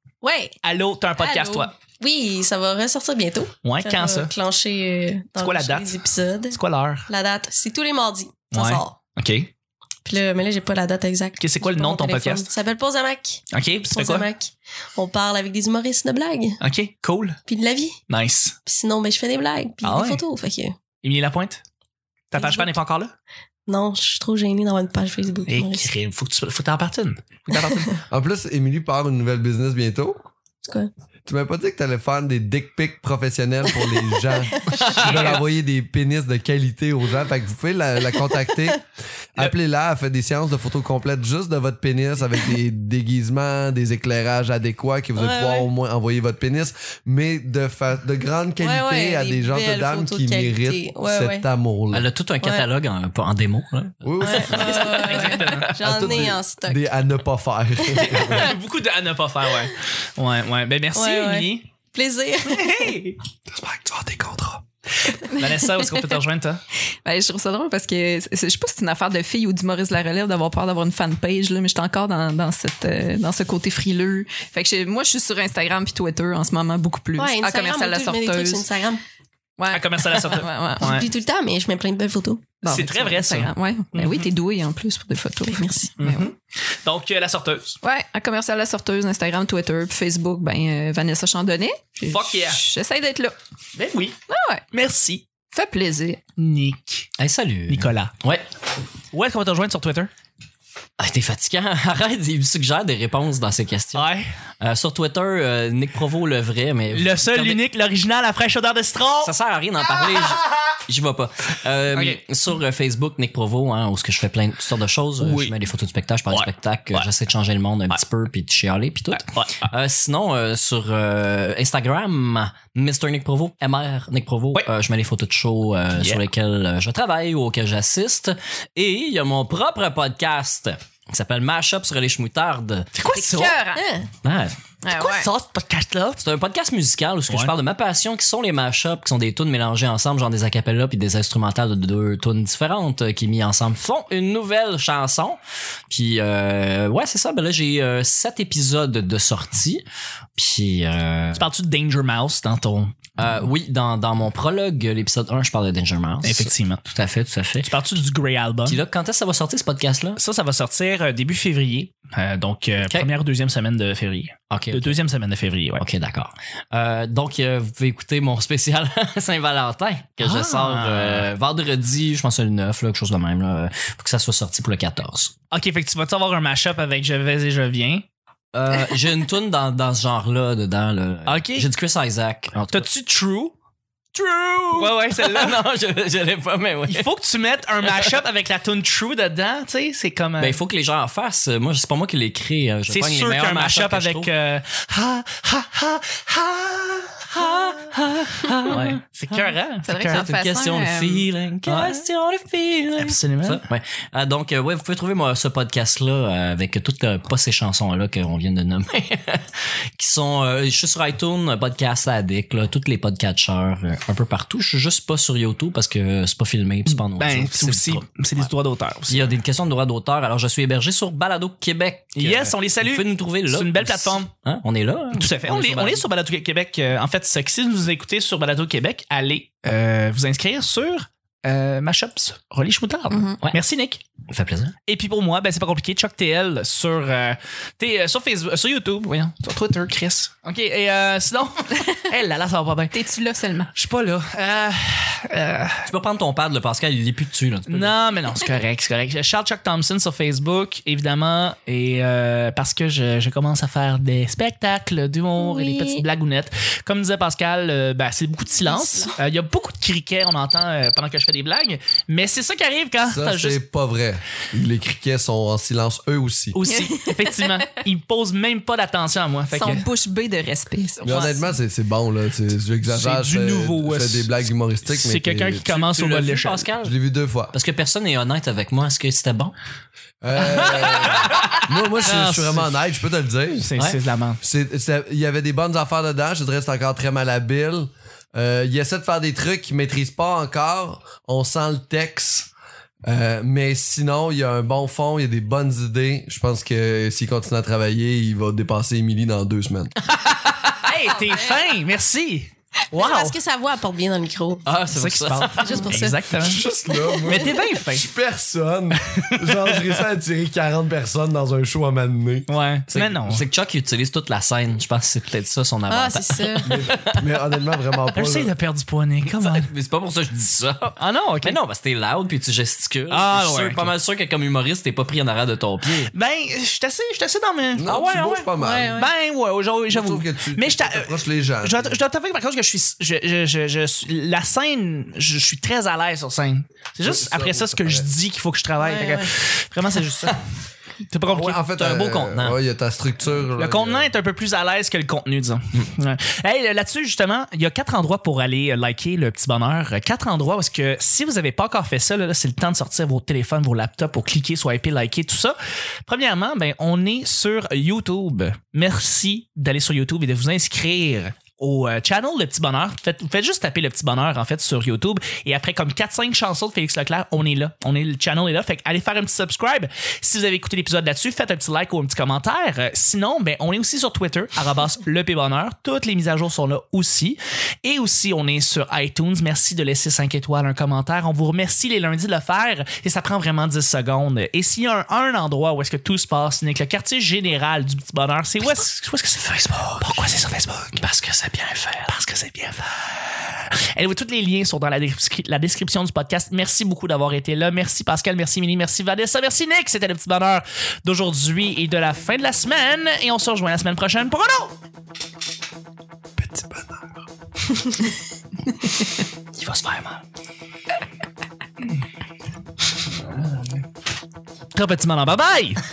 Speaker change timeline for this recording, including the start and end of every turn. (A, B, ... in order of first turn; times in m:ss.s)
0:00.2-0:00.5 A
0:00.6-0:01.7 B
0:01.2-0:08.9 A
0:03.6-0:04.3 B
0:05.4-0:06.0 B
0:06.5-0:07.1 B
0:08.5-0:09.5 B
0:10.0-0:16.6 A
0:11.4-0:12.5 B
0:13.5-0:14.3 B
0:16.6-0:17.4 B
0:17.5-0:18.0 A
0:18.1-0:18.6 B
0:18.7-0:20.8 A
0:19.8-0:20.2 B
0:21.0-0:21.6 B
0:22.3-0:23.1 B
0:22.4-0:22.7 A
0:23.7-0:25.9 A
0:25.5-0:28.0 B
0:28.1-0:30.2 C
0:30.6-0:30.9 A
0:31.3-0:52.1 C
0:34.5-0:35.3 A
0:34.7-0:35.4 B
0:45.2-0:45.7 A
0:48.6-0:51.4 A
0:51.9-0:55.1 D
0:52.4-0:52.7 A
0:54.0-0:54.9 C
0:54.2-0:56.8 A
0:54.2-0:55.8 B
0:55.8-0:58.6 C
0:57.9-0:58.5 A
0:58.3-1:01.7 B
1:01.0-1:03.0 A
1:02.5-1:04.6 B
1:05.2-1:06.6 B
1:05.3-1:06.0 E
1:07.0-1:18.7 E
1:17.2-1:19.0 A
1:19.6-1:21.0 E
1:19.7-1:21.1 B
1:20.8-1:22.5 A
1:22.6-1:26.3 E
1:22.6-1:24.3 B
1:25.5-1:25.9 A
1:26.0-1:27.8 B
1:27.8-1:33.4 E
1:32.1-1:32.6 B
1:33.8-1:34.2 B
1:34.3-1:34.6 E
1:34.7-1:35.2 B
1:35.5-1:36.2 E
1:36.4-1:37.1 B
1:37.2-1:38.5 D
1:37.7-1:38.2 B
1:39.1-1:40.1 B
1:41.0-1:44.1 D
1:43.9-1:44.3 B
1:44.6-1:47.6 D
1:46.9-1:49.3 B
1:49.2-2:12.9 D
1:50.4-1:50.7 B
1:51.9-1:52.2 B
1:55.2-1:55.5 B
1:56.3-1:57.1 B
1:59.1-1:59.7 B
2:12.9-2:13.6 B
2:13.1-2:13.9 E
2:13.8-2:14.1 A
2:14.2-2:14.6 D
2:14.8-2:15.3 E
2:14.9-2:16.2 B
2:16.2-2:29.8 D
2:30.4-2:31.5 D
2:31.4-2:33.0 B
2:33.2-2:37.7 D
2:36.2-2:36.9 B
2:37.6-2:38.8 B
2:38.7-2:40.2 D
2:40.2-2:45.8 B
2:44.5-2:45.0 D
2:45.8-2:55.3 D
2:50.2-2:51.3 B
2:55.5-2:58.0 B
2:58.5-3:02.9 D
3:01.3-3:01.7 B
3:02.7-3:03.5 B
3:04.1-3:07.1 D
3:04.7-3:05.6 B
3:06.9-3:10.6 B
3:10.4-3:14.3 D
3:12.9-3:20.3 B
3:17.4-3:19.5 D
3:19.8-3:21.3 E
3:20.1-3:38.5 D
3:21.7-3:22.1 B
3:23.0-3:23.6 B
3:36.9-3:39.4 B
3:39.1-3:46.1 D
3:42.2-3:44.3 B
3:45.1-3:54.0 B
3:53.1-3:53.4 E
3:54.3-3:54.7 D
3:54.9-4:02.9 B
4:02.9-4:03.7 E
4:03.8-4:05.9 B
4:05.8-4:08.0 D
4:07.7-4:23.6 B
4:15.4-4:16.0 E
4:18.6-4:19.2 A
4:23.1-4:26.6 C
4:26.5-4:29.9 B
4:26.6-4:27.8 E
4:29.5-4:31.2 E
4:31.0-4:35.7 C
4:31.0-4:31.4 B
4:32.9-4:34.3 B
4:34.8-4:36.7 B
4:35.7-4:37.0 D
4:36.8-4:37.5 C
4:37.5-4:39.5 D
4:40.2-4:43.8 C
4:40.4-4:42.7 B
4:43.6-4:44.4 B
4:44.4-4:52.5 C
4:53.0-4:59.9 C
5:00.3-5:03.4 B
5:02.9-5:04.7 A
5:04.7-5:05.9 D
5:04.9-5:06.6 B
5:05.6-5:06.3 A
5:06.4-5:12.5 C
5:07.2-5:07.5 A
5:07.2-5:08.1 B
5:09.2-5:09.8 B
5:12.5-5:13.4 B
5:12.9-5:17.2 D
5:15.9-5:16.7 A
5:16.6-5:18.5 C
5:18.1-5:19.7 B
5:19.3-5:26.1 D
5:21.0-5:21.6 B
5:23.1-5:23.9 B
5:26.1-5:27.8 B
5:27.8-5:29.0 C
5:27.8-5:28.5 D
5:28.6-5:29.1 A
5:29.0-5:40.5 B
5:29.9-5:32.0 C
5:37.0-5:38.1 C
5:38.8-5:39.3 A
5:41.1-5:42.5 B
5:41.2-5:44.1 C
5:43.5-6:31.0 B
6:29.4-6:30.3 D
6:30.9-6:32.1 D
6:32.1-6:44.8 B
6:46.4-6:46.8 B
6:49.6-6:50.2 D
6:54.8-6:55.8 B